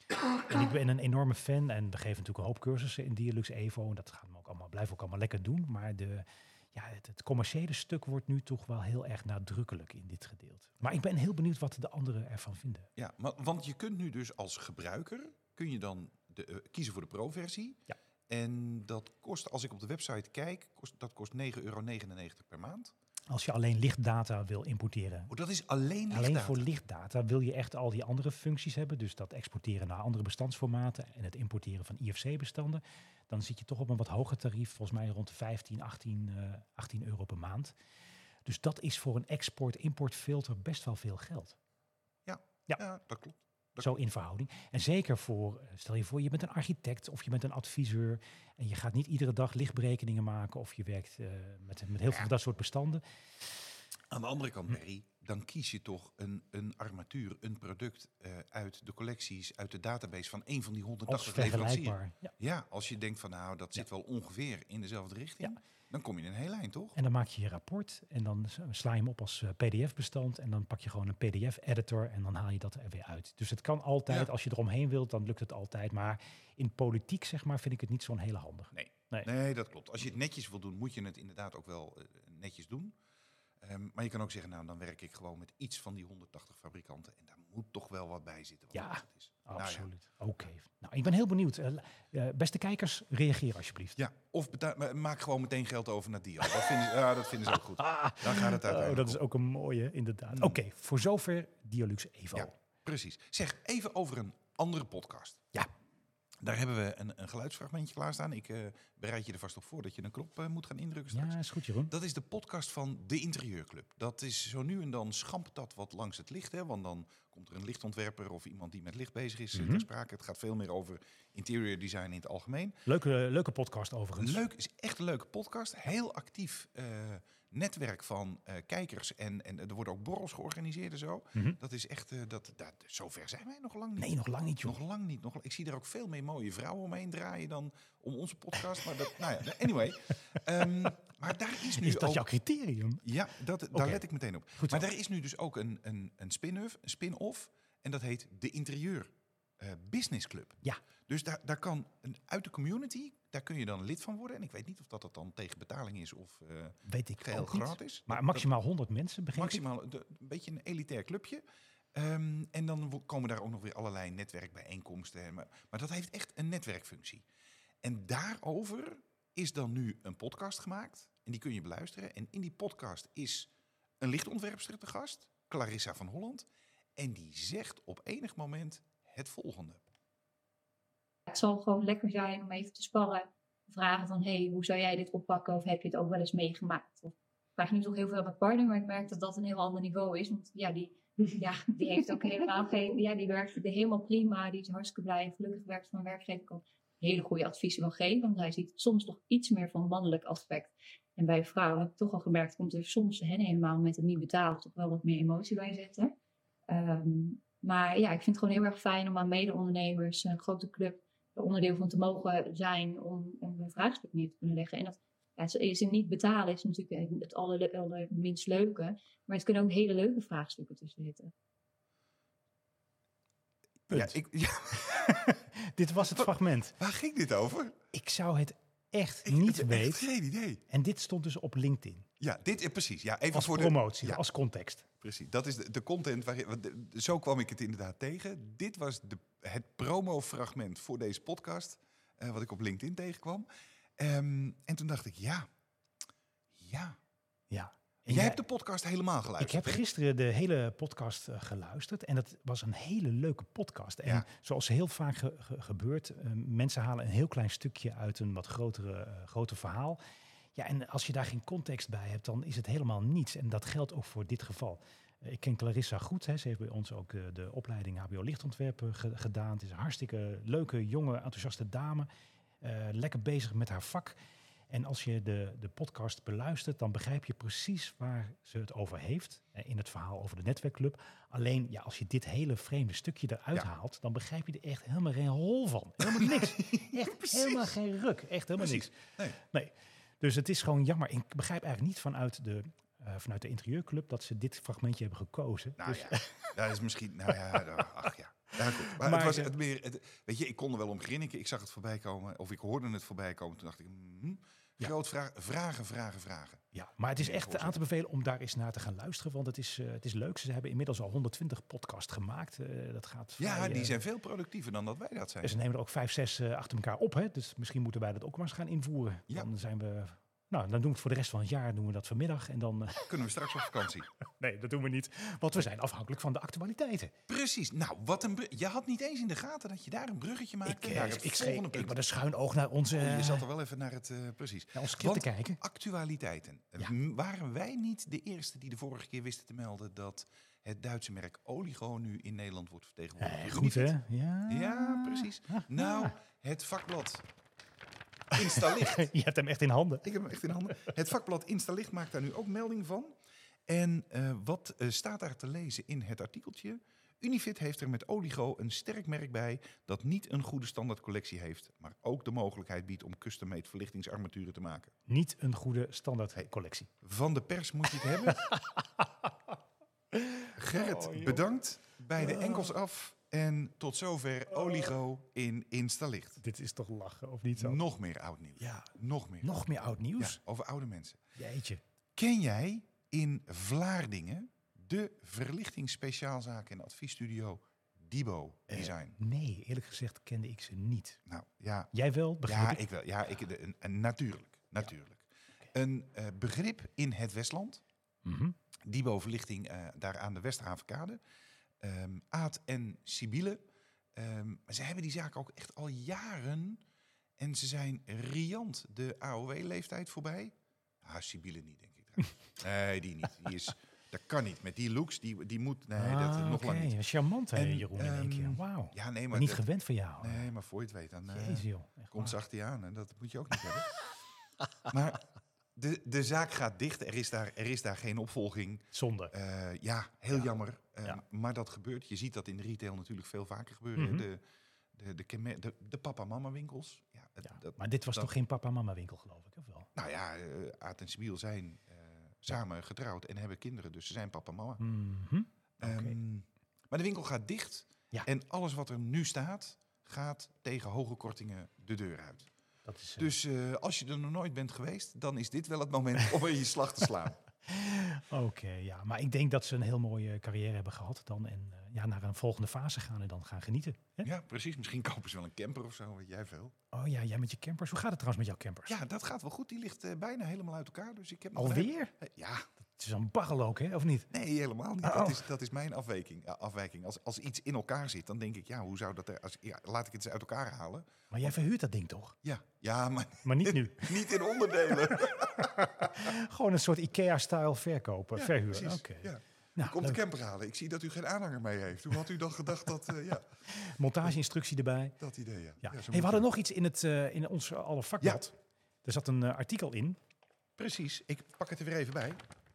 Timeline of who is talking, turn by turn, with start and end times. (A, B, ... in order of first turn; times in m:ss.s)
0:00.5-0:12.9 A
0:13.0-0:22.9 B
0:23.3-0:25.3 A
0:25.3-0:26.7 B
0:26.1-0:37.7 A
0:38.4-0:41.6 A
0:42.2-0:43.9 B
0:43.8-0:53.0 A
0:54.1-1:07.0 B
1:01.1-1:02.3 A
1:06.9-1:19.3 A
1:18.7-1:22.9 B
1:23.6-1:29.9 B
1:28.7-1:34.0 A
1:34.0-1:39.2 B
1:37.8-1:42.5 A
1:40.3-1:40.6 B
1:42.3-1:45.4 B
1:46.4-2:02.8 B
1:51.1-1:51.9 A
1:59.5-1:59.8 A
2:02.8-2:04.4 A
2:04.2-2:14.1 B
2:14.0-2:14.8 A
2:14.6-2:22.2 B
2:21.7-2:23.0 A
2:23.0-2:38.4 B
2:23.7-2:24.0 A
2:24.6-2:24.8 A
2:36.8-2:39.6 A
2:39.3-2:41.4 B
2:41.9-2:47.2 B
2:47.8-2:59.9 B
3:01.3-3:26.1 C
3:26.7-3:41.3 C
3:43.9-3:44.2 A
3:43.9-3:45.3 B
3:44.8-3:46.8 A
3:46.1-3:47.8 B
3:47.9-3:50.0 A
3:49.2-3:50.6 B
3:50.7-3:52.1 A
3:52.2-3:54.2 B
3:53.3-3:54.8 A
3:55.0-4:05.5 B
4:06.5-4:07.0 B
4:07.5-4:08.4 A
4:08.1-4:09.8 B
4:09.4-4:20.0 A
4:20.5-4:32.1 A
4:32.6-4:34.2 A
4:34.7-4:56.5 A
4:46.0-4:47.7 B
4:48.6-4:49.4 B
4:55.8-5:06.6 B
4:58.8-4:59.5 A
5:06.7-5:13.9 A
5:07.2-5:07.8 B
5:13.4-5:15.6 B
5:15.4-5:23.1 A
5:23.1-5:24.1 B
5:24.4-5:27.1 A
5:27.3-5:32.0 B
5:30.6-5:33.4 A
5:32.9-5:43.9 B
5:34.8-5:35.6 A
5:43.2-5:46.1 A
5:44.5-5:47.2 B
5:48.3-5:49.1 B
5:48.3-5:50.1 A
5:50.0-6:04.9 B
6:05.1-6:06.9 A
6:07.0-6:08.5 B
6:08.2-6:09.5 A
6:10.1-6:11.4 A
6:10.6-6:16.4 B
6:12.2-6:12.7 A
6:16.4-6:17.8 A
6:17.6-6:19.6 B
6:18.6-6:18.9 A
6:19.4-6:20.4 A
6:20.2-6:21.2 B
6:21.4-6:21.8 A
6:22.2-6:29.2 B
6:28.7-6:31.2 A
6:31.2-6:31.9 B
6:31.9-6:32.8 A
6:32.4-6:37.8 B
6:38.2-6:38.5 A
6:38.8-6:41.2 B
6:41.8-6:43.6 B
6:44.1-6:46.8 B
6:47.4-6:57.0 B
6:56.0-7:00.4 A
6:57.5-6:59.6 B
7:00.2-7:04.0 B
7:01.3-7:02.4 A
7:04.9-7:05.2 B
7:05.7-7:14.4 B
7:08.9-7:09.3 A
7:14.0-7:14.2 A
7:14.9-7:18.3 B
7:17.4-7:19.9 A
7:20.0-7:24.8 B
7:24.8-7:26.2 A
7:25.8-7:32.5 B
7:32.8-7:33.3 A
7:33.2-7:37.4 B
7:37.6-7:44.3 A
7:44.2-7:46.7 B
7:46.9-7:48.9 A
7:48.9-7:52.6 B
7:51.6-7:52.1 A
7:53.0-7:54.3 A
7:54.3-8:01.1 B
7:55.0-7:55.4 A
8:01.3-8:02.4 A
8:02.4-8:06.3 B
8:03.4-8:04.3 A
8:04.9-8:10.2 A
8:08.4-8:13.5 B
8:13.7-8:15.2 A
8:15.2-8:16.5 B
8:15.8-8:20.2 A
8:20.8-8:22.4 B